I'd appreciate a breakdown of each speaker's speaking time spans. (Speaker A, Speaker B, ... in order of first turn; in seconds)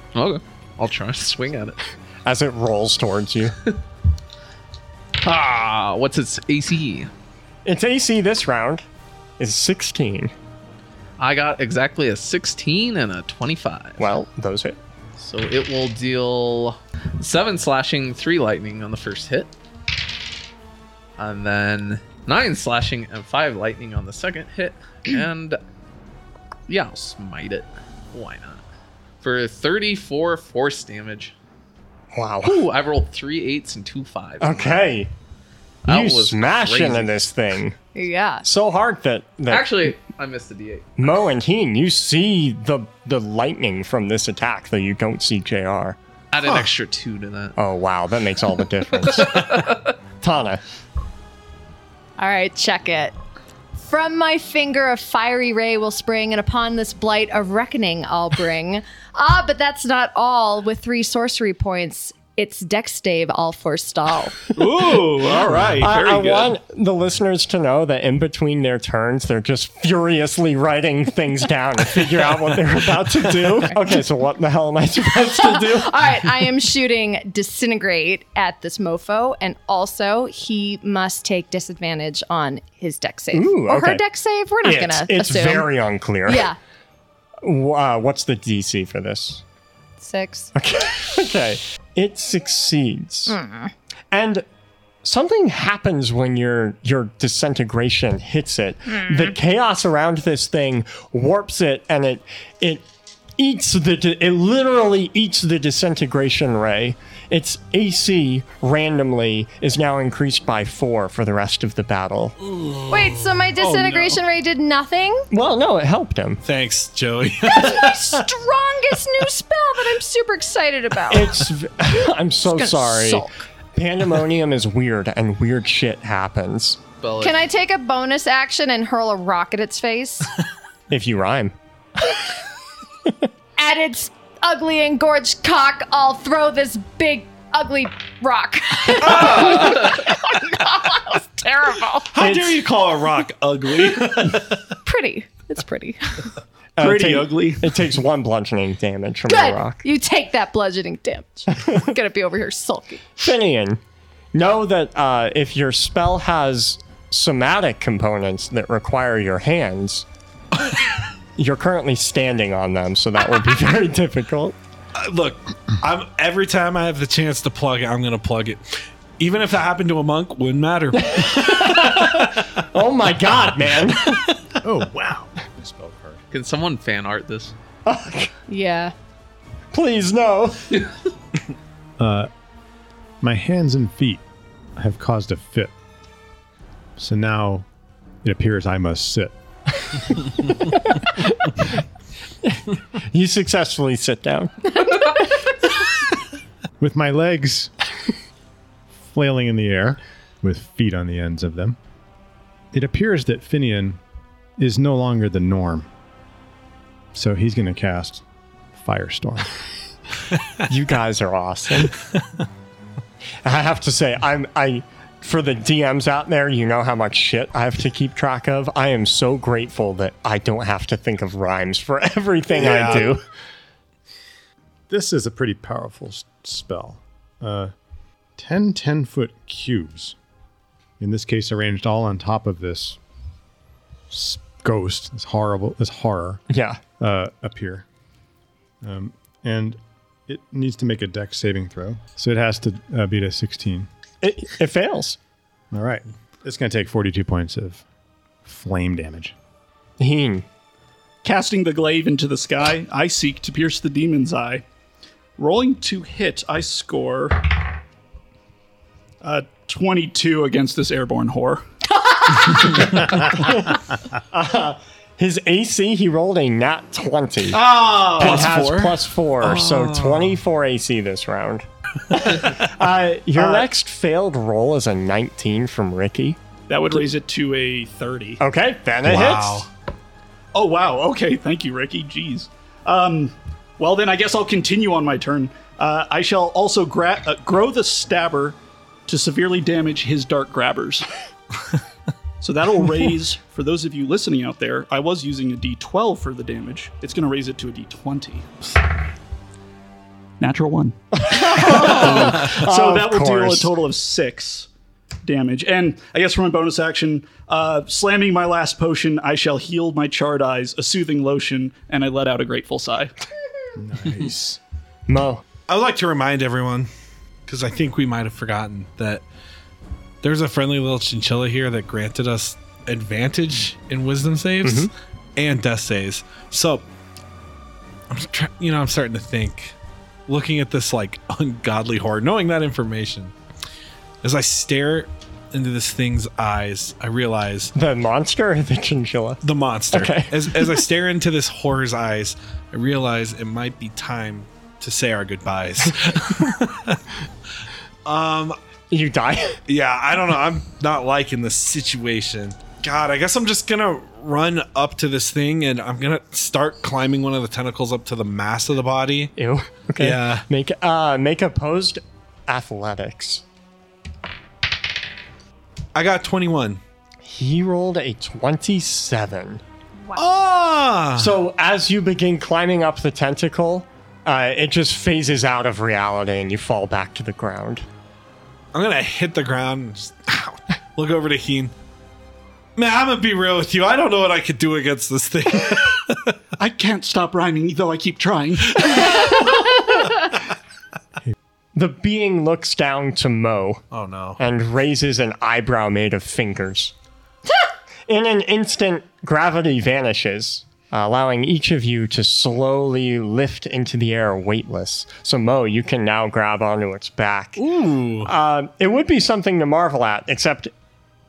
Speaker A: 0.1-1.8, 5.2-7.1, 11.2-14.1, 15.2-19.5, 21.2-25.6, 26.7-28.6, 29.2-31.3, 32.4-34.8, 35.9-37.2, 39.5-40.9, 46.3-47.6, 49.0-49.9, 127.0-127.4, 139.2-140.0, 176.3-177.5
Speaker B: 2.2-3.6, 7.7-8.8, 9.4-10.3, 14.0-14.8, 32.1-32.6, 34.4-35.1, 35.9-37.8, 38.5-40.0, 41.0-46.0, 47.6-50.6, 65.8-76.0, 83.3-84.0, 84.6-86.5, 87.4-89.4, 90.5-93.4, 94.1-94.5, 95.0-102.8, 103.4-112.4, 115.3-116.4, 121.1-126.8, 130.9-131.5, 142.2-142.6, 146.8-149.8, 153.2-153.8, 154.3-160.1, 161.4-164.6, 171.1-174.3, 177.9-178.3, 179.7-180.8, 190.6-191.7, 192.4-195.3, 210.7-212.0, 213.4-223.2, 236.5-236.8, 244.2-245.2, 250.0-250.4, 262.3-267.6, 268.2-276.4, 278.4-279.7, 301.2-303.7, 315.1-315.4, 324.6-324.9, 337.8-340.8, 348.9-349.6, 359.4-363.4, 367.2-369.6, 371.2-377.9, 391.8-393.9, 394.4-396.9, 398.1-410.7
Speaker C: 38.0-38.5, 52.2-53.1, 53.8-64.5, 75.3-85.7, 86.3-86.6, 90.0-90.5, 93.3-93.7, 98.9-99.3, 112.9-115.3, 117.4-121.5, 122.4-123.4, 127.2-130.3, 133.6-142.1, 144.8-146.3, 149.3-153.2, 178.5-178.9
Speaker D: 46.4-46.7, 64.7-66.0, 112.5-113.2, 116.4-118.2, 139.1-139.9, 142.1-144.7, 165.0-172.4, 222.6-223.2, 267.5-270.4, 272.2-272.6, 279.0-279.7, 315.7-316.9, 317.5-319.2, 320.2-326.9, 328.1-329.8, 330.3-333.3, 334.2-337.7, 339.4-347.0, 348.1-348.6, 349.7-359.3, 360.0-360.4, 365.9-366.8, 370.2-371.4, 378.7-381.7, 382.8-386.4, 388.8-390.4, 393.9-394.4, 407.6-408.3
Speaker E: 64.6-66.5, 113.6-114.2, 146.8-147.7, 251.2-254.6, 255.4-257.6, 259.2-261.6, 276.7-278.4, 280.5-291.1, 292.4-298.5, 300.4-304.7, 305.2-313.1, 386.6-389.3
Speaker F: 174.6-176.2, 182.0-182.3, 183.2-184.2, 184.8-185.7, 187.0-187.7, 188.2-189.3, 196.8-197.7, 199.0-201.8, 202.7-204.0, 204.6-205.9, 207.1-208.2, 208.7-209.5, 224.9-227.7, 228.4-230.2, 231.0-233.0, 234.1-236.4, 237.0-237.9, 238.8-243.9, 245.7-247.8, 248.4-249.3, 313.8-314.6